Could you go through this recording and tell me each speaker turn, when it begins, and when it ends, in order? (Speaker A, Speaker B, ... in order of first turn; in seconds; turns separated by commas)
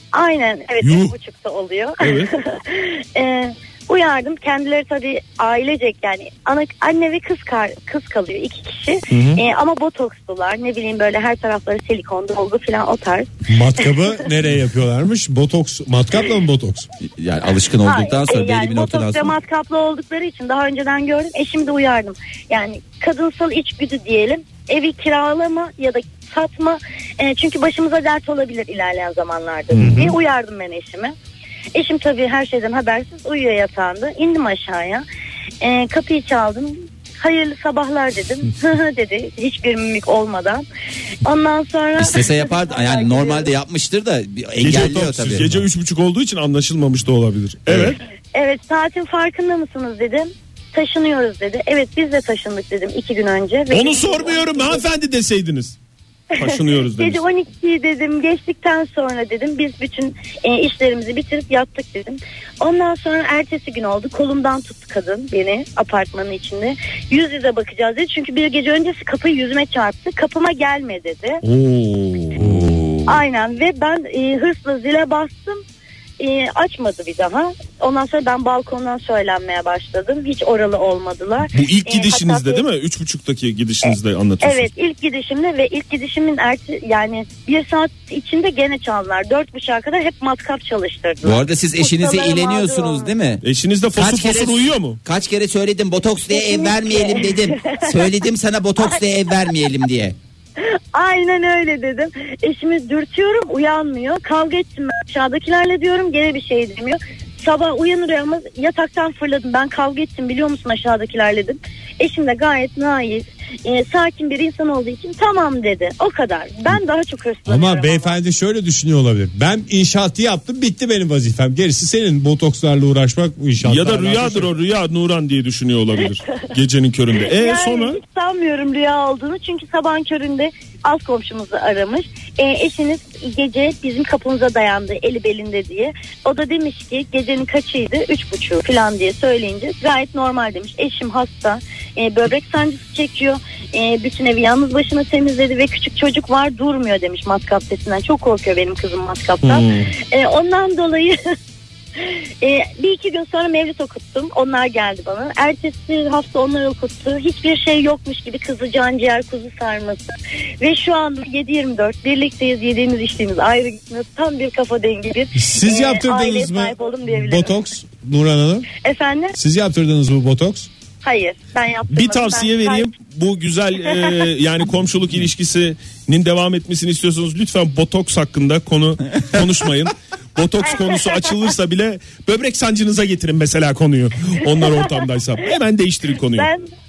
Speaker A: 0.1-13.3, Speaker B: 0.8-1.1, Speaker B: 2.0-2.3, Speaker B: 9.1-9.4, Speaker C: 13.5-16.9, Speaker D: 17.1-19.3, Speaker A: 17.8-31.1, Speaker B: 29.7-30.1, Speaker A: 31.7-35.0, Speaker A: 35.6-40.6, Speaker A: 41.2-43.5, Speaker D: 42.0-45.5, Speaker B: 44.6-48.0, Speaker A: 48.3-54.8, Speaker B: 53.7-55.8, Speaker B: 56.3-57.2, Speaker A: 56.4-71.4, Speaker B: 71.4-72.5, Speaker D: 72.4-73.2, Speaker C: 72.4-72.7, Speaker A: 73.1-75.6, Speaker A: 76.2-82.6, Speaker B: 81.5-84.7, Speaker A: 84.4-93.1, Speaker D: 91.2-93.4, Speaker B: 93.4-95.0, Speaker D: 93.9-100.2, Speaker A: 96.3-98.0, Speaker A: 100.9-118.2, Speaker C: 117.5-124.5, Speaker B: 123.6-128.0, Speaker A: 127.2-151.2, Speaker B: 149.4-149.9, Speaker A: 152.0-160.1, Speaker A: 160.6-167.5, Speaker C: 165.3-168.7, Speaker A: 168.8-169.3, Speaker C: 169.3-170.7, Speaker A: 171.0-172.8, Speaker B: 171.9-186.5, Speaker A: 186.3-186.7